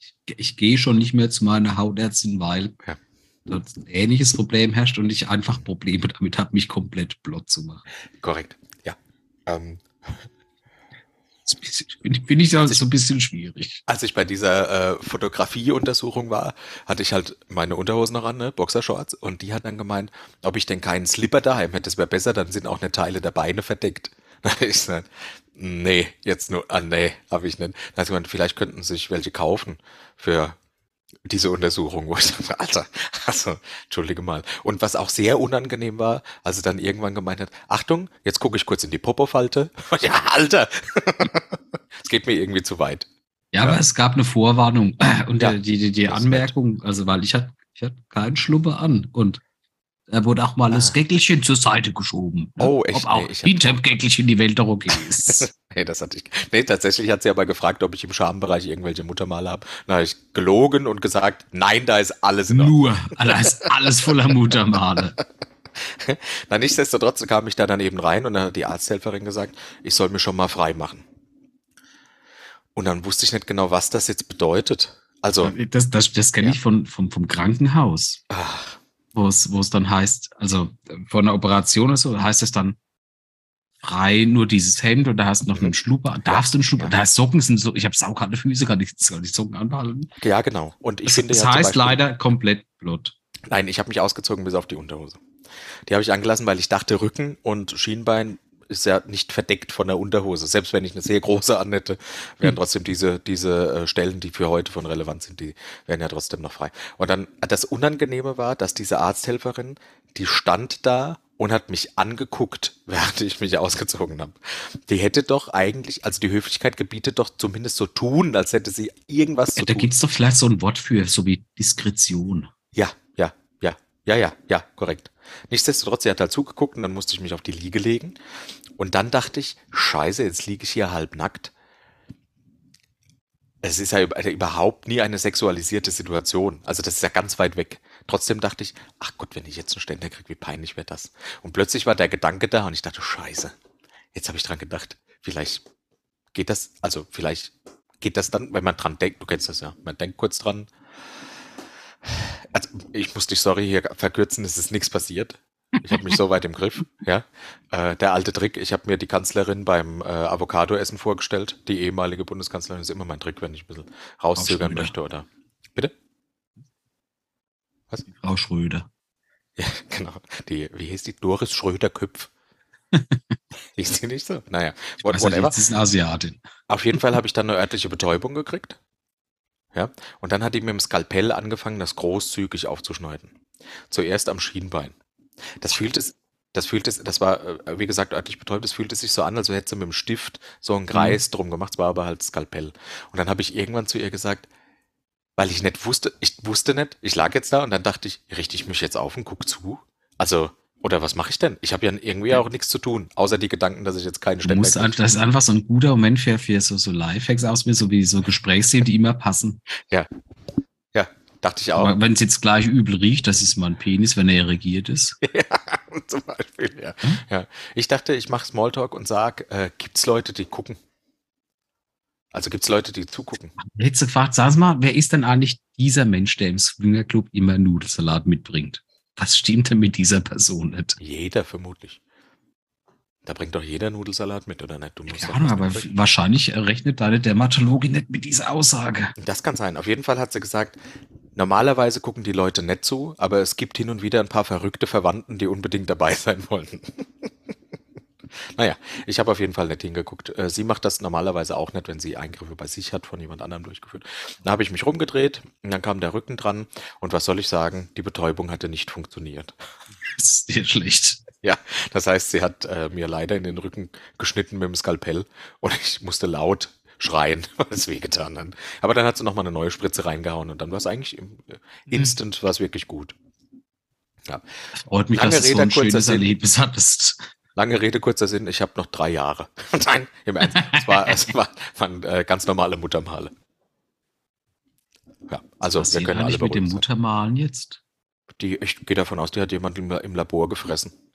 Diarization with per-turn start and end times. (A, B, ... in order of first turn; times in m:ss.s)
0:00.2-0:02.8 A
0:03.5-0:07.8 A
0:08.2-0:09.8 B
0:11.4-0:13.8 A
0:13.9-0:30.6 B
0:31.3-0:43.1 B
0:43.5-0:49.4 A
0:45.4-0:46.5 B
0:50.1-0:55.5 A
0:52.6-0:53.8 B
0:55.3-1:03.6 B
1:02.5-1:05.2 A
1:05.8-1:11.0 B
1:12.8-1:15.5 B
1:15.4-1:18.2 A
1:18.3-1:18.8 B
1:19.1-1:22.8 A
1:23.8-1:30.1 A
1:26.2-1:26.9 B
1:30.2-1:32.0 B
1:31.0-1:33.1 A
1:33.5-1:35.2 B
1:35.9-1:59.9 B
1:59.6-2:02.5 A
2:02.7-2:08.2 B
2:08.8-2:11.5 B
2:13.6-2:23.5 B
2:24.1-2:25.6 B
2:26.3-2:30.7 B
2:32.1-2:45.9 B
2:44.4-2:44.9 A
2:48.1-2:48.9 A
2:49.6-2:52.3 B
2:52.9-2:53.4 A
2:53.8-2:55.6 B
2:55.0-2:56.4 A
2:56.7-2:58.8 B
2:59.7-3:03.3 B
3:03.9-3:04.9 B
3:05.6-3:14.5 B
3:10.9-3:11.2 A
3:15.4-3:25.0 B
3:24.4-3:29.6 A
3:30.9-3:31.9 B
3:31.8-3:35.2 A
3:35.2-3:40.8 B
3:42.3-3:43.6 B
3:43.6-3:51.0 A
3:51.0-3:52.0 B
3:53.2-3:55.9 B
3:55.1-3:59.1 A
3:59.2-4:00.8 B
4:01.4-4:07.0 B
4:08.5-4:19.5 B
4:20.0-4:21.2 A
4:21.4-4:33.1 B
4:34.7-4:37.2 A
4:35.1-4:36.3 B
4:37.6-4:43.3 B
4:40.5-4:41.3 A
4:45.3-4:46.8 B
4:45.8-4:47.8 A
4:48.4-4:50.9 B